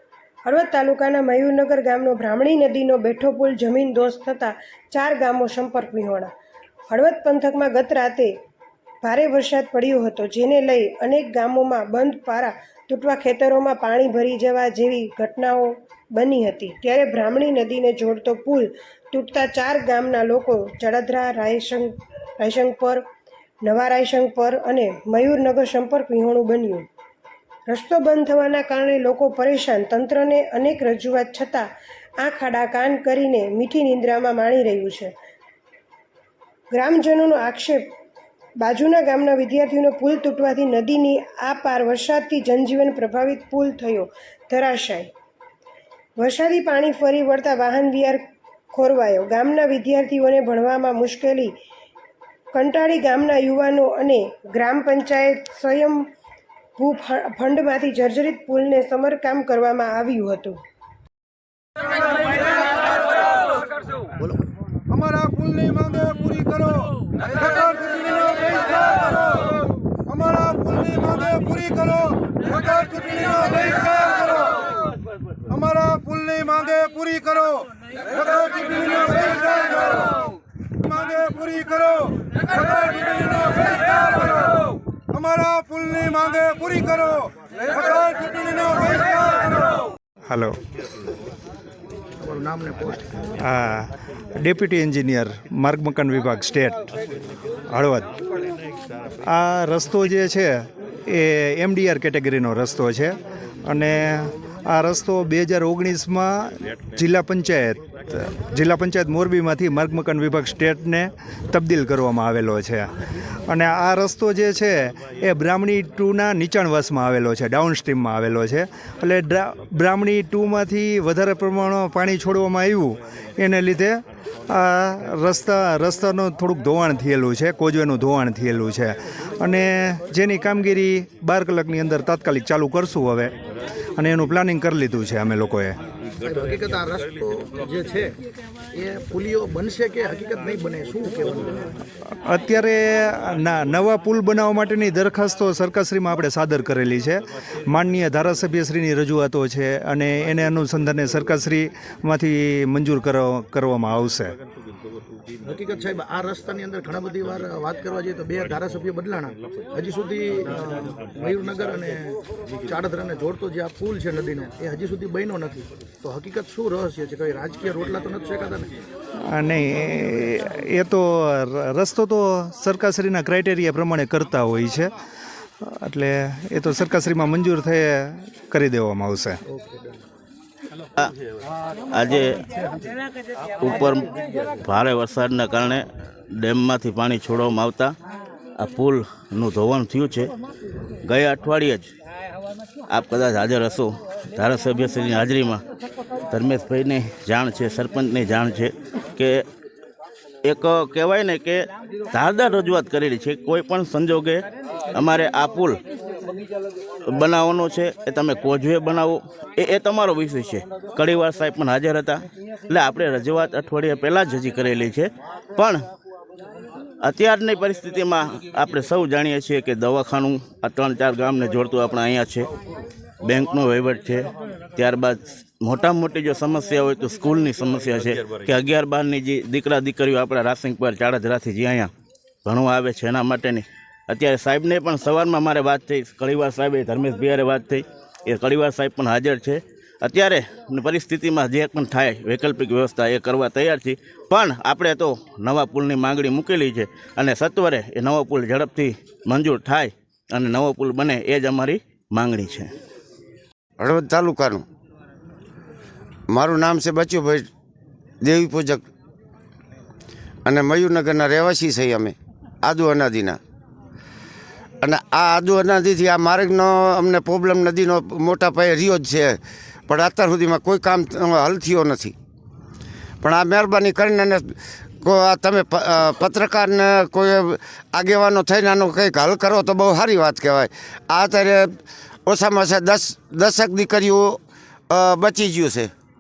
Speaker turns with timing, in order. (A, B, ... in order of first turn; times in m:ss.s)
0:00.4-0:06.3 A
0:06.9-0:08.3 A
0:09.0-0:23.0 A
0:23.6-0:26.9 A
0:27.7-0:31.6 A
0:32.2-0:35.1 A
0:36.7-0:37.9 A
0:38.6-0:45.1 A
0:46.2-0:48.2 A
0:48.7-0:51.5 A
0:52.5-0:56.0 A
0:56.8-1:00.6 A
1:05.2-1:06.8 B
1:07.4-1:08.8 B
1:10.2-1:14.5 B
1:15.6-1:17.5 B
1:18.2-1:20.0 B
1:21.1-1:24.4 B
1:25.6-1:29.0 B
1:30.3-1:30.6 C
1:32.2-1:33.2 D
1:33.4-1:36.9 C
1:37.7-1:38.2 C
1:39.2-2:13.3 C
2:14.0-2:15.8 C
2:16.2-2:18.2 D
2:18.7-2:21.7 D
2:22.1-2:34.3 C
2:35.4-2:48.7 D
2:49.3-2:54.9 C
2:55.6-2:59.4 C
2:59.5-3:00.0 D
3:01.9-3:02.4 E
3:03.6-3:05.8 E
3:06.4-3:07.9 E
3:08.6-3:10.3 E
3:11.0-3:11.9 E
3:12.9-3:15.6 E
3:16.3-3:19.4 E
3:20.4-3:25.8 E
3:27.1-3:35.8 E
3:37.0-3:42.5 E
3:43.2-3:51.9 E
3:52.4-4:12.7 E
4:13.8-4:14.6 F
4:16.3-4:17.5 F
4:18.2-4:18.8 F
4:20.4-4:23.4 F
4:24.8-4:32.1 F
4:33.2-4:44.4 F
4:44.9-4:45.9 F